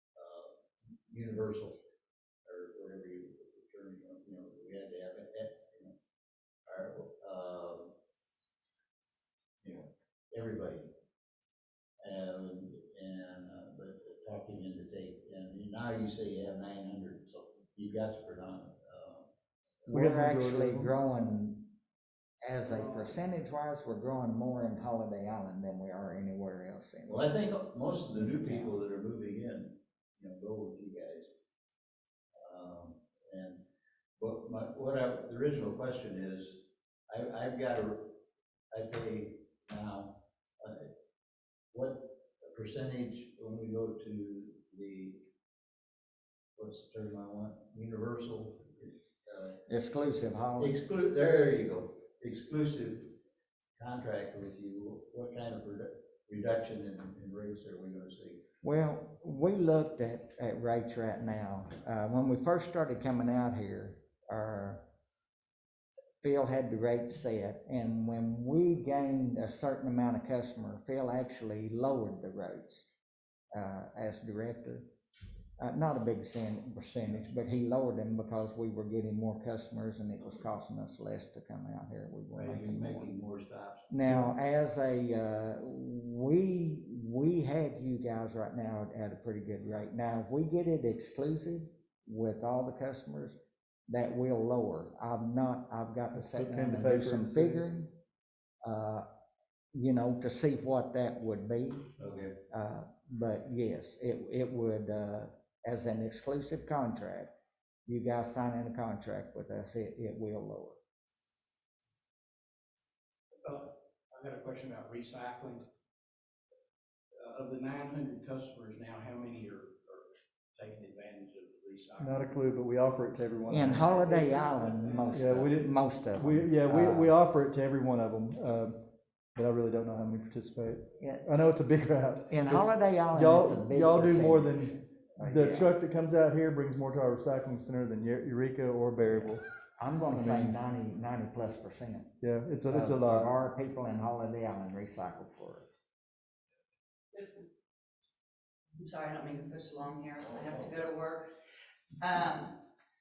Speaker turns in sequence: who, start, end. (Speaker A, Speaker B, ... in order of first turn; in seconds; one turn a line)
Speaker A: 0.1-0.5
Speaker A: 1.1-1.8
Speaker A: 2.4-5.9
Speaker A: 6.7-7.9
Speaker A: 9.6-10.9
Speaker A: 12.0-19.3
Speaker B: 19.9-21.7
Speaker C: 19.9-20.9
Speaker B: 22.4-27.3
Speaker A: 27.1-31.3
Speaker B: 28.1-28.8
Speaker A: 32.4-33.6
Speaker A: 34.2-38.1
Speaker A: 38.7-40.9
Speaker A: 41.7-45.2
Speaker A: 46.5-49.6
Speaker B: 49.7-50.8
Speaker A: 50.6-53.1
Speaker A: 53.8-58.4
Speaker B: 58.6-64.8
Speaker B: 66.2-72.8
Speaker B: 73.5-74.8
Speaker B: 75.6-83.1
Speaker A: 82.3-83.9
Speaker B: 83.9-93.4
Speaker B: 93.9-97.9
Speaker C: 96.2-97.6
Speaker B: 98.6-99.0
Speaker B: 99.7-101.8
Speaker A: 102.0-102.3
Speaker B: 102.5-107.3
Speaker B: 107.9-110.8
Speaker D: 113.4-115.6
Speaker D: 117.2-122.2
Speaker C: 122.0-124.1
Speaker B: 123.5-127.1
Speaker C: 125.1-128.8
Speaker C: 129.3-139.4
Speaker B: 131.0-131.3
Speaker B: 132.3-135.7
Speaker B: 139.1-142.1
Speaker C: 140.1-140.6
Speaker C: 142.2-143.3
Speaker B: 142.7-145.8
Speaker E: 148.8-151.2
Speaker E: 152.0-152.6